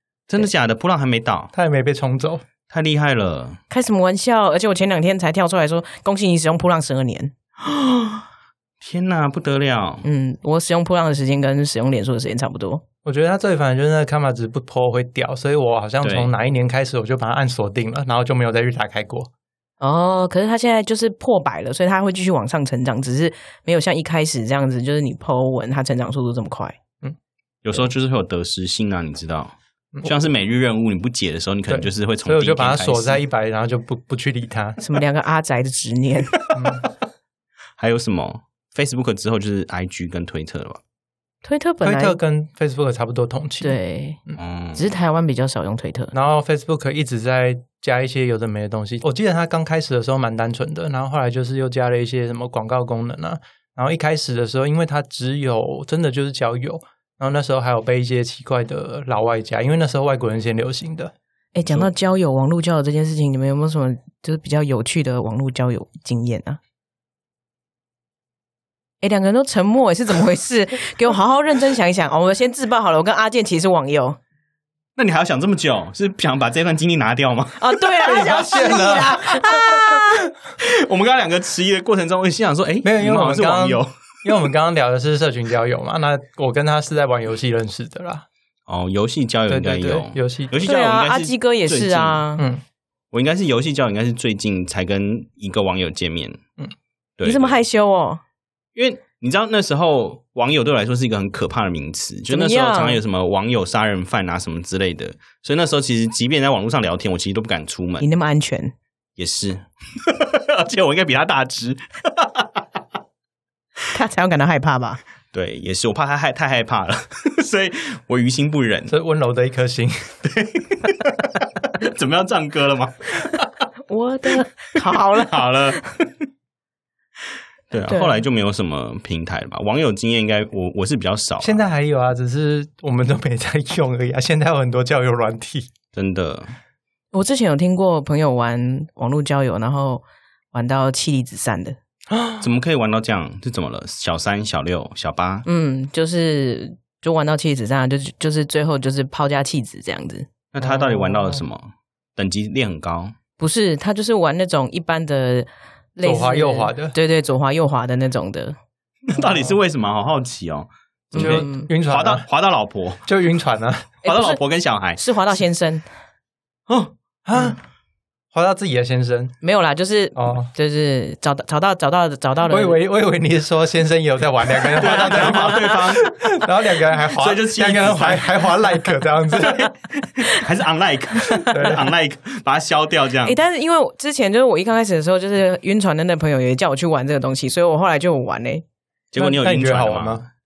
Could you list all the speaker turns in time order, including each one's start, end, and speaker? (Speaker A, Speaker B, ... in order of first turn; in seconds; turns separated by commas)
Speaker A: 0.3-1.5, Speaker B: 1.5-2.4, Speaker A: 2.7-3.6, Speaker C: 3.7-7.3, Speaker A: 7.6-8.2, Speaker A: 8.8-10.0, Speaker C: 10.0-12.8, Speaker B: 13.0-19.3, Speaker A: 16.0-16.3, Speaker C: 19.8-26.8, Speaker A: 27.6-33.2, Speaker B: 31.7-34.8, Speaker C: 34.8-36.6, Speaker B: 36.5-36.9, Speaker A: 37.8-40.8, Speaker C: 41.5-42.2, Speaker B: 41.8-44.4, Speaker C: 43.6-44.2, Speaker A: 44.4-44.9, Speaker C: 44.8-46.1, Speaker B: 46.1-61.1, Speaker C: 61.5-66.6, Speaker C: 69.0-74.2, Speaker A: 75.0-77.7, Speaker C: 77.6-80.3, Speaker B: 78.0-79.4, Speaker A: 80.6-83.9, Speaker B: 82.8-88.3, Speaker A: 88.7-92.2, Speaker B: 89.5-90.6, Speaker C: 90.6-92.5, Speaker A: 93.1-96.4, Speaker A: 97.2-97.6, Speaker C: 97.2-98.2, Speaker A: 98.8-108.1, Speaker C: 102.3-103.0, Speaker C: 108.0-108.7, Speaker A: 109.2-112.6, Speaker C: 113.9-115.0, Speaker A: 115.3-118.9, Speaker B: 118.9-120.2, Speaker A: 120.2-123.5, Speaker C: 123.9-125.8, Speaker A: 125.1-126.1, Speaker A: 127.7-131.7, Speaker C: 127.9-128.2, Speaker B: 131.4-135.7, Speaker A: 135.9-136.5, Speaker C: 137.1-141.8, Speaker B: 142.1-142.4, Speaker A: 142.4-145.5, Speaker C: 145.5-150.3, Speaker A: 150.5-153.1, Speaker B: 150.6-151.4, Speaker C: 153.4-158.6, Speaker B: 156.0-156.9, Speaker A: 159.1-163.0, Speaker C: 161.1-161.7, Speaker B: 161.2-162.3, Speaker B: 163.1-163.9, Speaker C: 164.0-164.4, Speaker A: 164.1-165.0, Speaker C: 164.9-165.8, Speaker B: 167.3-167.6, Speaker B: 168.3-169.3, Speaker C: 169.4-172.8, Speaker B: 170.2-170.5, Speaker B: 172.5-179.7, Speaker A: 174.8-176.3, Speaker C: 175.0-175.8, Speaker A: 177.2-178.5, Speaker A: 179.3-183.4, Speaker B: 181.5-181.9, Speaker C: 183.2-188.6, Speaker A: 189.1-190.3, Speaker B: 189.2-190.2